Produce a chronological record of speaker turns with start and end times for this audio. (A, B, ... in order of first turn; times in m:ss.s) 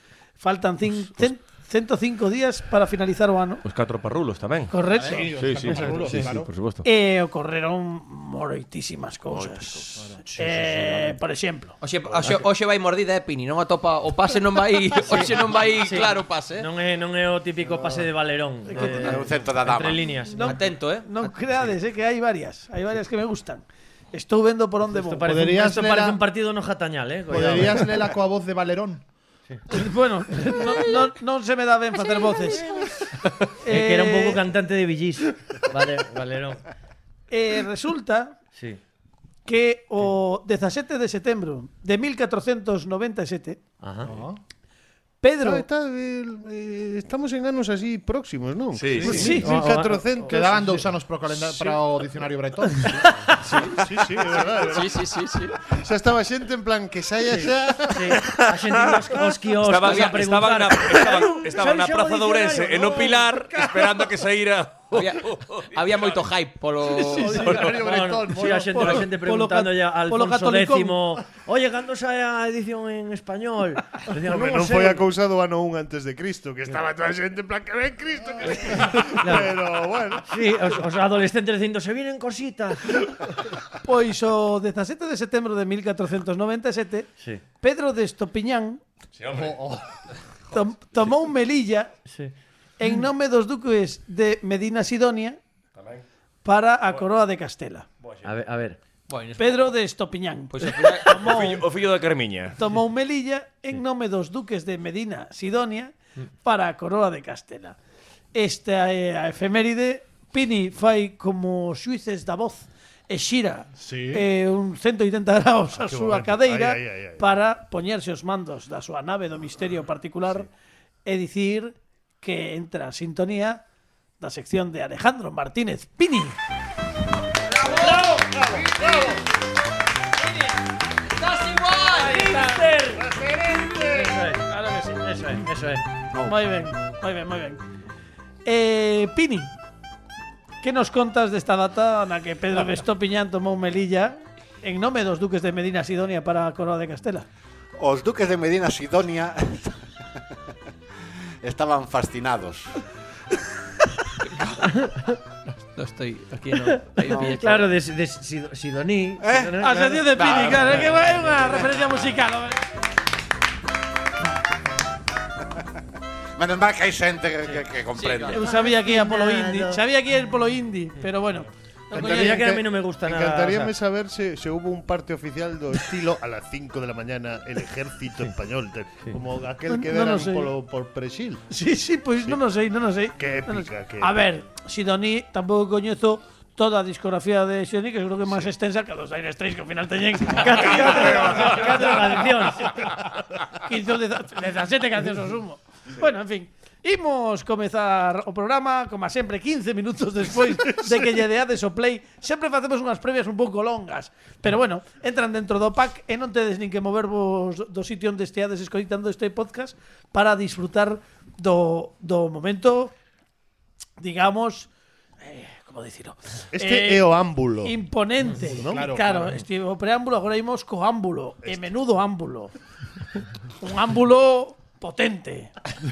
0:00.4-0:03.6 A
0:03.6-0:04.7 B
0:04.7-0:05.4 A
0:05.0-0:06.5 C
0:05.3-0:06.8 B
0:05.7-0:06.2 D
0:06.8-0:11.7 A
0:10.0-0:10.3 C
0:10.4-0:11.1 D
0:11.8-0:16.7 E
0:12.2-0:12.4 D
0:15.0-0:20.7 D
0:18.7-0:19.3 A
0:19.0-0:20.0 F
0:20.3-0:25.5 A
0:20.4-0:21.1 E
0:24.8-0:28.1 D
0:25.3-0:26.2 C
0:27.3-0:29.0 C
0:29.7-0:32.7 A
0:30.4-0:30.8 D
0:33.6-0:34.4 A
0:33.6-0:36.6 D
0:37.3-0:38.4 A
0:38.5-0:38.8 D
0:39.4-0:43.6 A
0:43.8-0:44.1 D
0:44.0-0:44.4 C
0:45.2-0:45.6 A
0:45.4-0:51.8 G
0:48.7-0:49.2 B
0:49.0-0:50.7 D
0:49.1-0:49.5 A
0:50.3-0:53.1 C
0:53.5-0:55.1 G
0:53.5-0:53.8 E
0:54.6-0:55.6 E
0:55.7-0:58.4 G
0:57.3-1:03.3 D
0:59.6-1:06.2 B
0:59.8-1:00.2 E
1:03.6-1:04.0 C
1:04.9-1:07.4 E
1:06.9-1:07.7 A
1:07.2-1:08.8 C
1:07.4-1:07.8 B
1:07.7-1:15.0 D
1:08.4-1:11.1 A
1:14.2-1:20.4 G
1:18.5-1:19.6 D
1:20.3-1:23.0 D
1:23.8-1:27.1 A
1:27.6-1:28.8 A
1:29.2-1:29.7 B
1:29.3-1:29.8 C
1:30.5-1:31.9 A
1:32.8-1:35.4 A
1:35.8-1:36.0 B
1:36.4-1:37.8 A
1:38.0-1:38.3 B
1:38.2-1:38.8 D
1:39.1-1:39.7 E
1:39.4-1:41.7 A
1:40.6-1:41.1 E
1:40.7-1:42.6 B
1:42.6-1:47.8 A
1:48.3-2:00.5 A
1:53.8-1:54.2 C
1:55.7-1:57.2 G
2:01.0-2:03.6 A
2:04.2-2:06.4 A
2:07.4-2:08.1 E
2:08.1-2:08.7 D
2:11.2-2:12.2 E
2:11.9-2:12.9 A
2:12.0-2:14.4 D
2:13.1-2:14.1 G
2:14.4-2:15.5 A
2:15.1-2:15.8 D
2:16.1-2:16.4 F
2:16.2-2:17.6 A
2:18.4-2:19.5 A
2:20.6-2:27.2 A
2:27.8-2:29.8 F
2:31.4-2:32.7 F
2:35.8-2:37.7 E
2:36.6-2:41.6 D
2:39.2-2:39.5 F
2:39.6-2:42.6 A
2:40.1-2:40.8 E
2:46.4-2:48.4 F
2:47.9-2:48.4 E
2:48.3-2:52.4 A
2:48.4-2:49.8 D
2:51.9-2:53.7 D
2:51.9-3:01.4 G
2:59.7-3:00.5 A
3:01.5-3:12.8 A
3:03.2-3:04.2 G
3:10.3-3:12.8 D
3:13.6-3:32.9 A
3:34.0-3:34.7 A
3:35.2-3:37.1 A
3:36.5-3:37.8 G
3:37.6-3:42.5 A
3:38.5-3:38.8 G
3:38.6-3:39.4 C
3:43.6-3:45.5 A